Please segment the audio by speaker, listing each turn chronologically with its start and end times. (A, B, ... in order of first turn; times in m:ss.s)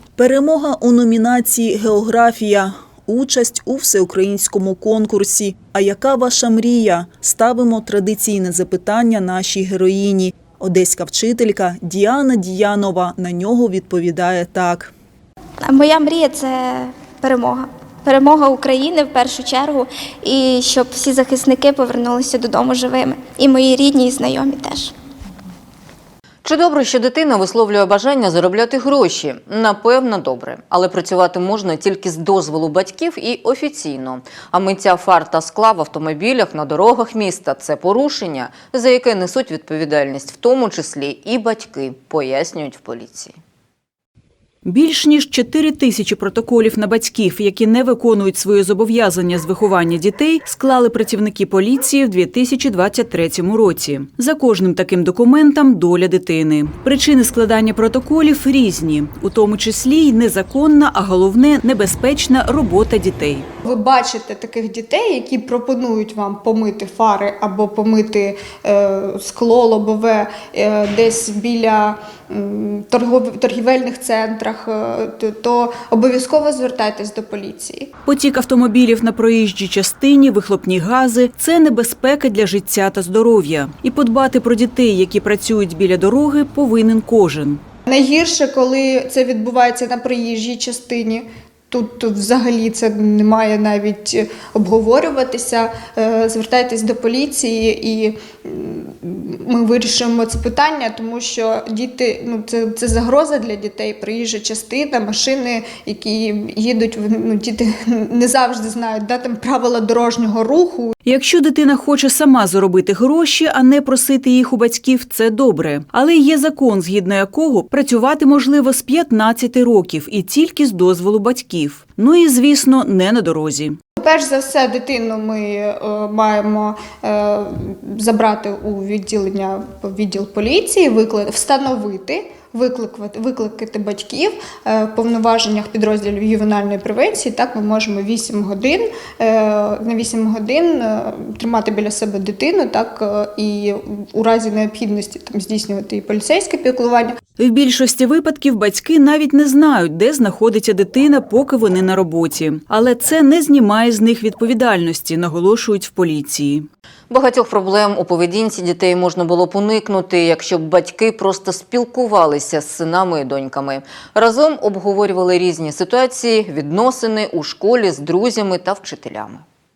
0:00.2-0:14.9 A
0:15.6-0:24.9 B
0:26.4-0:43.4 C
0:44.6-1:03.5 D
1:03.6-1:17.9 E
1:18.0-1:27.6 D
1:27.9-1:50.9 E
1:51.0-2:03.8 D
2:04.0-2:27.2 E
2:27.4-2:36.7 D
2:37.1-2:49.4 C